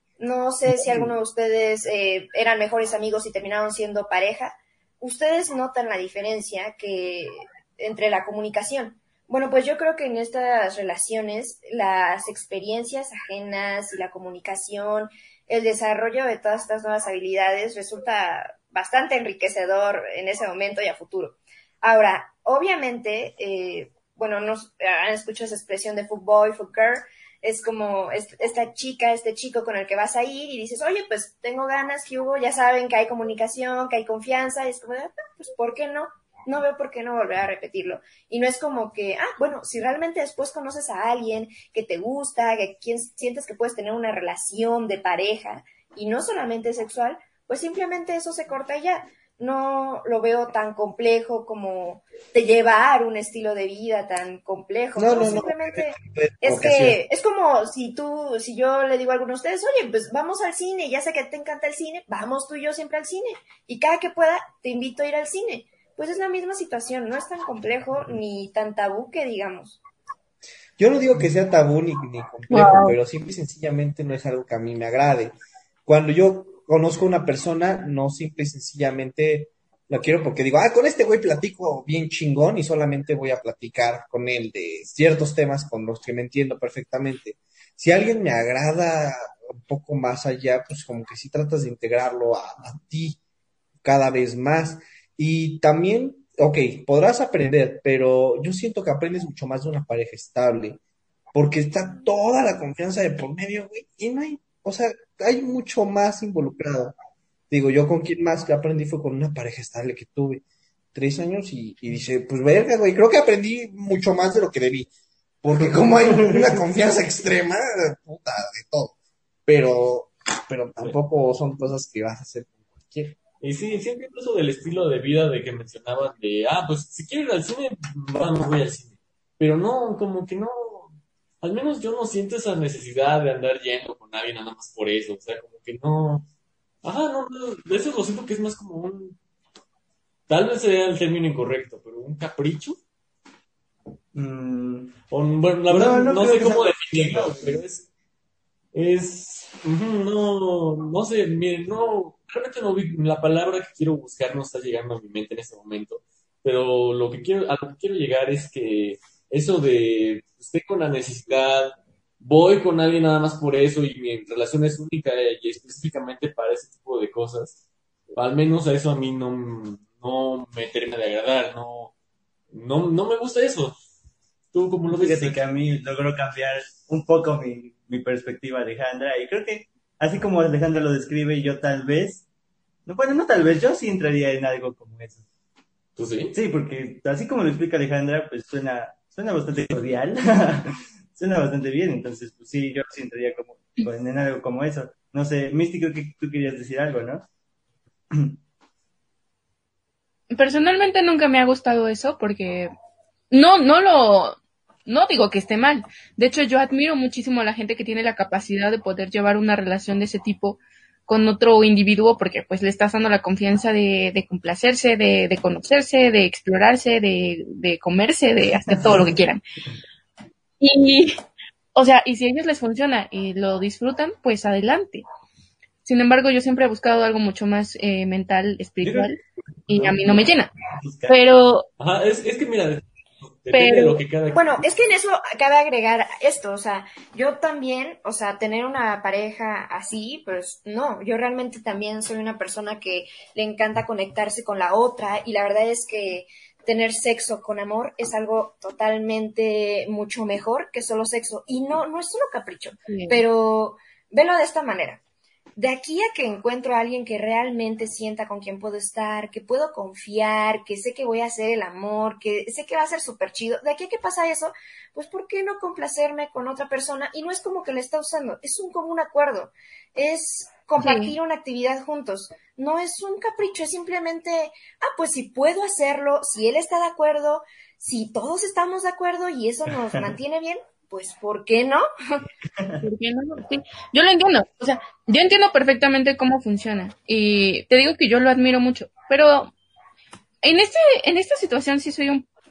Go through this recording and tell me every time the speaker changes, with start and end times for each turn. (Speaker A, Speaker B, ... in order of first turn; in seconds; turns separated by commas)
Speaker A: 0.2-69.8, Speaker B: 55.0-57.0, Speaker B: 70.8-75.3, Speaker C: 72.5-73.0, Speaker B: 75.9-93.2, Speaker B: 93.8-100.8, Speaker B: 101.3-106.9, Speaker B: 107.5-110.4, Speaker B: 110.9-114.9, Speaker B: 115.4-119.0, Speaker B: 119.5-123.2, Speaker D: 123.4-130.9, Speaker D: 131.4-136.3, Speaker D: 136.8-139.2, Speaker D: 140.3-142.8, Speaker E: 144.1-145.0, Speaker D: 145.1-147.8, Speaker E: 145.7-147.6, Speaker D: 148.7-167.6, Speaker D: 168.1-171.9, Speaker D: 172.5-173.8, Speaker D: 174.5-175.4, Speaker E: 174.9-182.2, Speaker E: 182.9-185.2, Speaker D: 186.0-186.3, Speaker E: 186.3-197.3, Speaker E: 198.1-198.4, Speaker C: 200.3-202.7, Speaker C: 203.3-219.4, Speaker E: 218.6-219.1, Speaker C: 220.6-221.2, Speaker C: 221.8-225.1, Speaker C: 225.8-230.5, Speaker E: 228.8-229.1, Speaker E: 229.7-231.2, Speaker C: 231.1-231.7, Speaker D: 231.8-234.6, Speaker C: 233.5-234.0, Speaker A: 234.3-255.0, Speaker C: 252.9-253.2, Speaker A: 255.6-282.2, Speaker C: 270.8-271.1, Speaker E: 282.6-282.9, Speaker C: 282.8-289.5, Speaker C: 290.4-292.3